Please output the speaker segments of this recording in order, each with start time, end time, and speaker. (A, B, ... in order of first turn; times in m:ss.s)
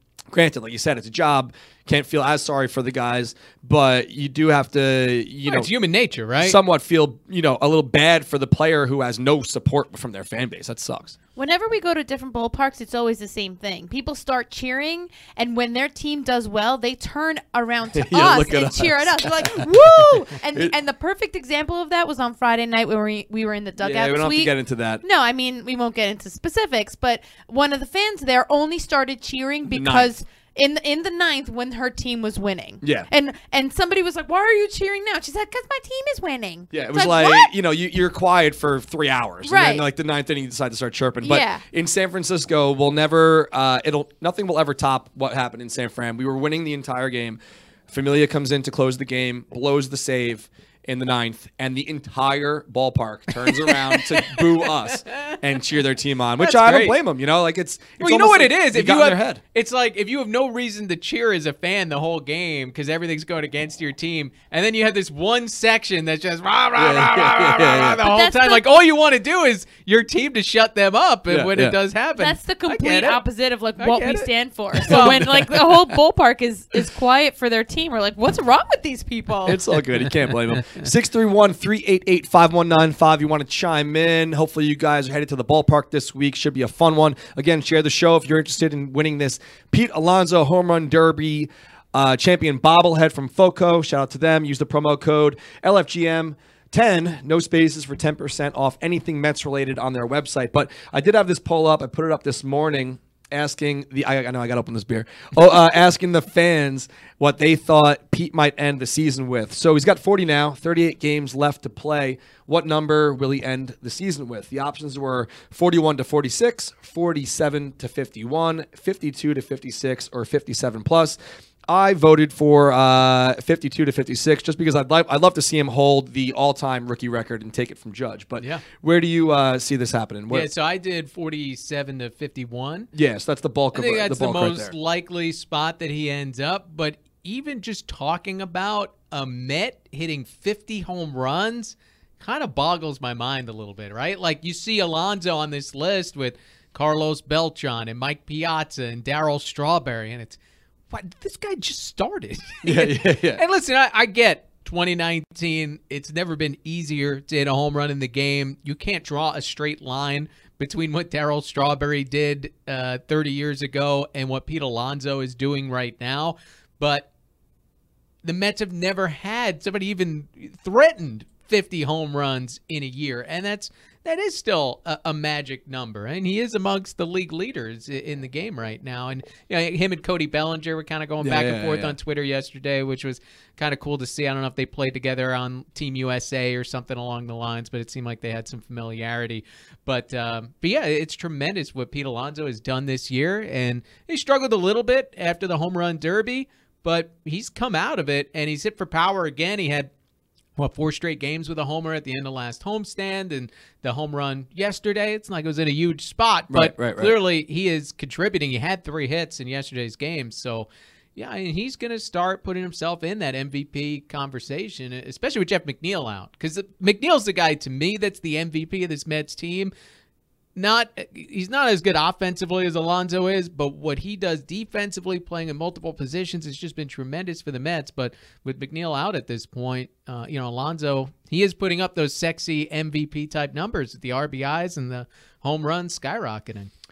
0:00.3-0:05.7 A
0:05.5-0:06.6 B
0:06.4-0:11.1 A
0:11.4-0:37.5 C
0:17.9-0:20.7 A
0:23.8-0:25.0 A
0:29.7-0:30.1 A
0:32.8-0:33.1 A
0:36.7-0:59.4 A
0:39.4-0:39.8 C
0:41.2-0:41.6 C
0:53.9-0:55.3 B
0:56.4-0:57.0 B
0:58.0-1:13.2 B
1:06.7-1:08.0 A
1:08.0-1:08.6 C
1:11.3-1:11.8 A
1:12.2-1:19.6 C
1:13.8-1:15.4 B
1:14.8-1:15.7 A
1:19.4-2:10.5 A
2:10.3-2:12.9 B
2:12.9-2:14.7 A
2:13.7-2:30.4 B
2:30.9-2:47.1 B
2:32.6-2:33.4 A
2:48.2-3:19.9 B
3:01.2-3:01.9 A
3:20.6-3:39.7 B
3:26.5-3:27.1 A
3:40.6-3:56.7 B